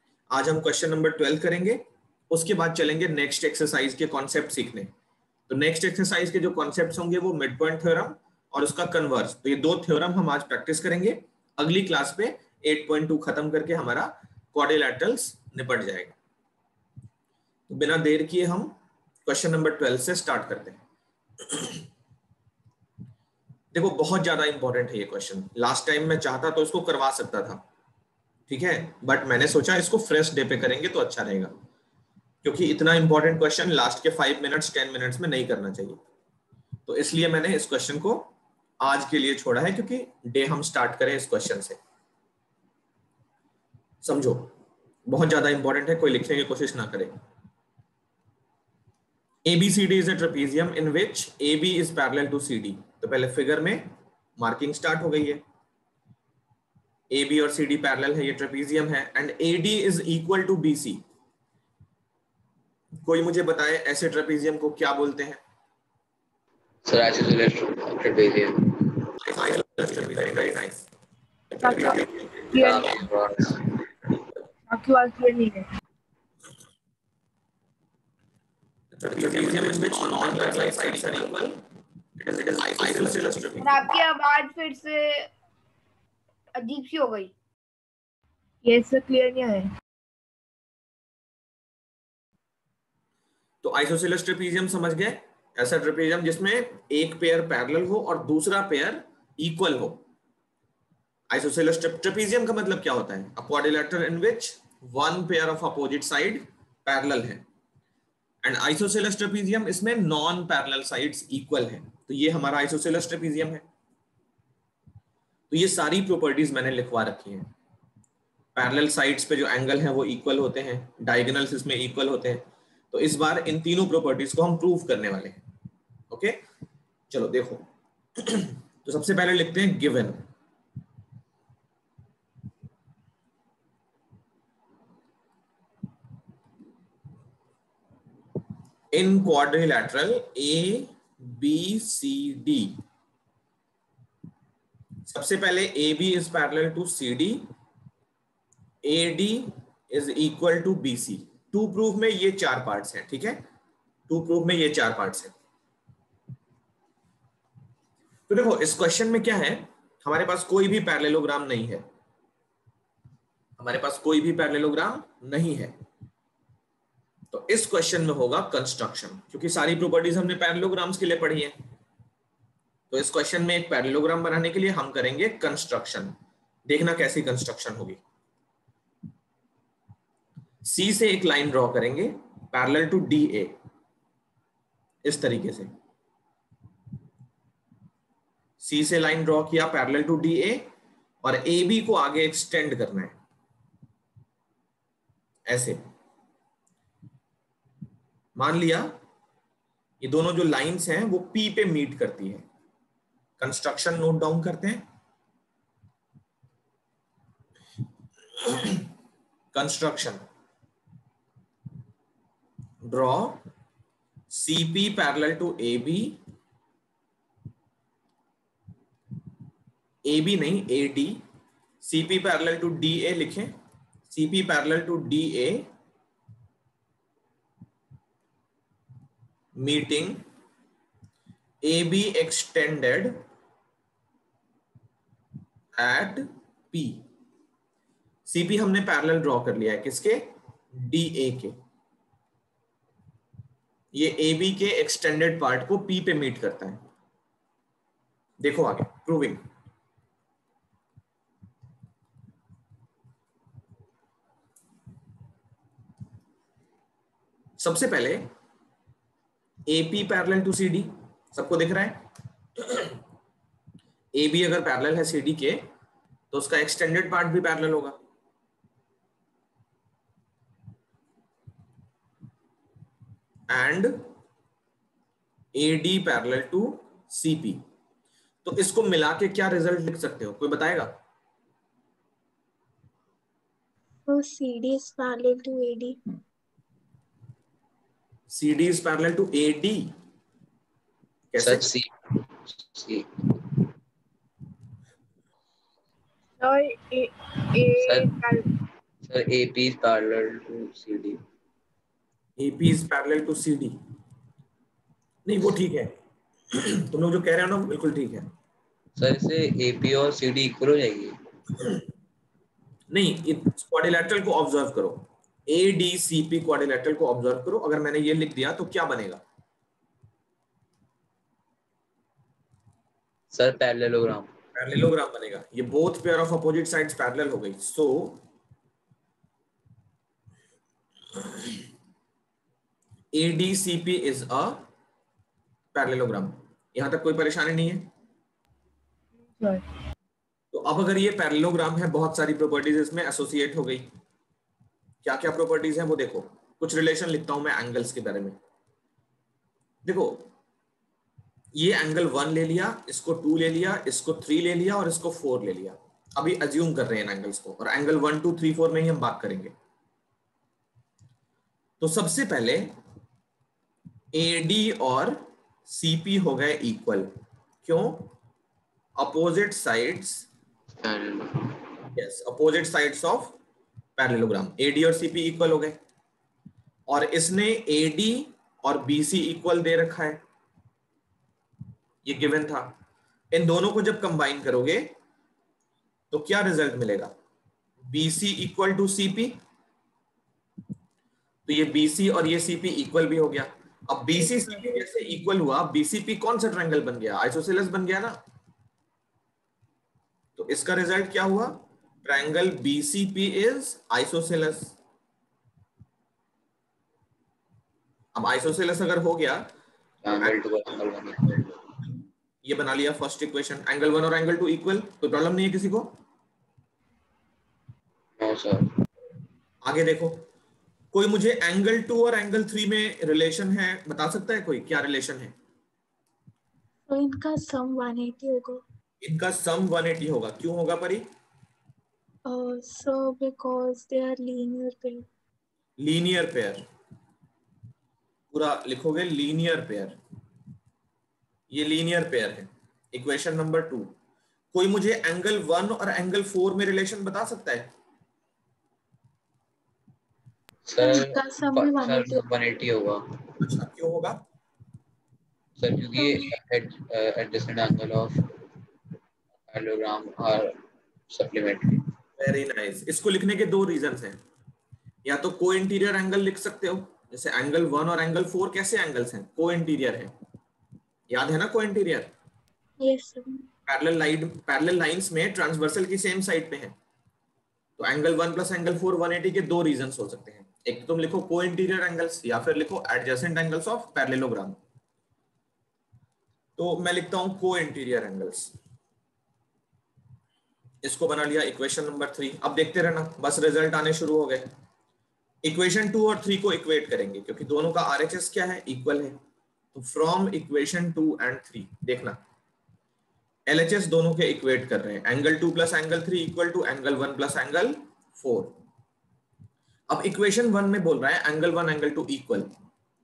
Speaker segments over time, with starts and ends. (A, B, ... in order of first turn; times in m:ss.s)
0:00.3-0:04.9 A
0:05.5-0:16.2 A
0:17.7-0:20.8 A
0:21.4-0:21.8 A
0:23.7-0:27.6 A
0:28.5-0:31.5 A
0:32.4-0:36.0 A
0:36.9-0:38.3 A
0:38.8-0:41.8 A
0:44.0-0:44.5 A
0:45.1-0:47.1 A
0:49.4-0:55.4 A
0:57.1-1:01.0 A
1:03.0-1:05.4 A
1:06.8-1:09.0 B
1:09.3-1:10.9 A
1:11.5-1:12.8 A
1:12.5-1:13.7 B
1:14.7-1:15.6 C
1:18.9-1:21.6 A
1:22.2-1:23.9 A
1:23.6-1:25.3 D
1:26.6-1:27.3 D
1:28.6-1:29.7 C
1:33.6-1:40.0 A
1:41.3-1:47.4 A
1:48.4-1:53.7 A
1:55.5-1:57.5 A
1:58.6-2:05.4 A
2:06.1-2:06.4 A
2:07.1-2:07.6 A
2:08.2-2:10.2 A
2:18.9-2:22.8 A
2:25.1-2:27.5 A
2:28.8-2:33.4 A
2:34.1-2:35.3 A
2:38.3-2:41.8 A
2:43.6-2:45.8 A
2:47.3-2:51.6 A
2:52.9-2:56.1 A
2:56.7-2:58.0 A
3:00.6-3:03.5 A
3:05.0-3:05.7 A
3:08.6-3:10.7 A
3:11.2-3:13.1 A
3:15.5-3:15.8 A
3:18.4-3:18.9 A
3:20.0-3:22.4 A
3:23.4-3:24.8 A
3:28.4-3:28.9 A
3:29.5-3:30.2 A
3:32.8-3:33.4 A
3:34.3-3:36.2 A
3:40.1-3:41.2 A
3:41.8-3:43.5 A
3:44.1-3:45.7 A
3:49.6-3:50.2 A
3:51.6-3:53.2 A
3:55.8-3:57.0 A
3:58.3-4:01.6 A
4:03.9-4:06.8 A
4:08.4-4:09.4 A
4:17.6-4:18.3 A
4:19.7-4:22.1 A
4:22.6-4:23.0 A
4:24.2-4:25.7 A
4:26.3-4:28.0 A
4:33.5-4:34.1 A
4:35.6-4:37.6 A
4:38.4-4:41.0 A
4:44.1-4:46.0 E
4:48.3-4:49.9 A
4:51.3-4:51.7 A
4:51.4-4:53.6 B
4:56.4-4:58.4 C
4:57.7-4:58.1 B
4:59.0-5:01.2 B
5:02.4-5:03.8 A
5:05.3-5:05.9 A
5:06.5-5:08.3 A
5:09.0-5:11.2 B
5:12.9-5:19.2 A
5:23.3-5:24.3 B
5:24.5-5:28.2 A
5:33.1-5:34.7 A
5:35.7-5:37.9 A
5:39.4-5:39.6 C
5:40.5-5:43.9 A
5:45.0-5:48.4 A
5:49.8-5:50.3 A
5:51.6-5:59.5 A
6:01.8-6:02.7 A
6:04.1-6:07.1 A
6:07.6-6:08.1 A
6:09.0-6:10.3 A
6:10.7-6:11.6 B
6:11.9-6:13.4 A
6:14.0-6:15.8 A
6:16.9-6:20.2 A
6:22.0-6:22.8 A
6:23.3-6:24.9 A
6:26.1-6:27.1 A
6:27.9-6:29.4 A
6:31.5-6:38.2 A
6:34.2-6:34.9 C
6:40.4-6:44.8 A
6:48.2-6:49.5 A
6:50.0-6:51.6 B
6:50.2-6:51.4 A
6:52.4-6:55.9 A
6:58.2-6:58.7 B
6:59.6-7:00.3 A
7:00.9-7:05.4 A
7:06.9-7:08.6 E
7:09.0-7:11.1 A
7:12.2-7:15.1 E
7:15.8-7:16.6 A
7:18.3-7:20.0 A
7:21.5-7:23.9 A
7:24.5-7:27.7 A
7:30.7-7:33.0 B
7:30.8-7:32.2 E
7:33.4-7:34.2 A
7:35.6-7:38.5 B
7:36.0-7:36.3 E
7:39.5-7:40.6 B
7:41.1-7:41.9 B
7:42.2-7:44.2 A
7:45.0-7:50.1 A
7:51.1-7:52.1 A
7:52.8-7:53.5 E
7:53.7-7:56.8 A
7:57.8-8:04.6 A
8:06.6-8:08.5 A
8:10.8-8:14.5 A
8:15.4-8:19.2 A
8:19.7-8:22.2 A
8:23.5-8:28.6 A
8:29.9-8:32.5 A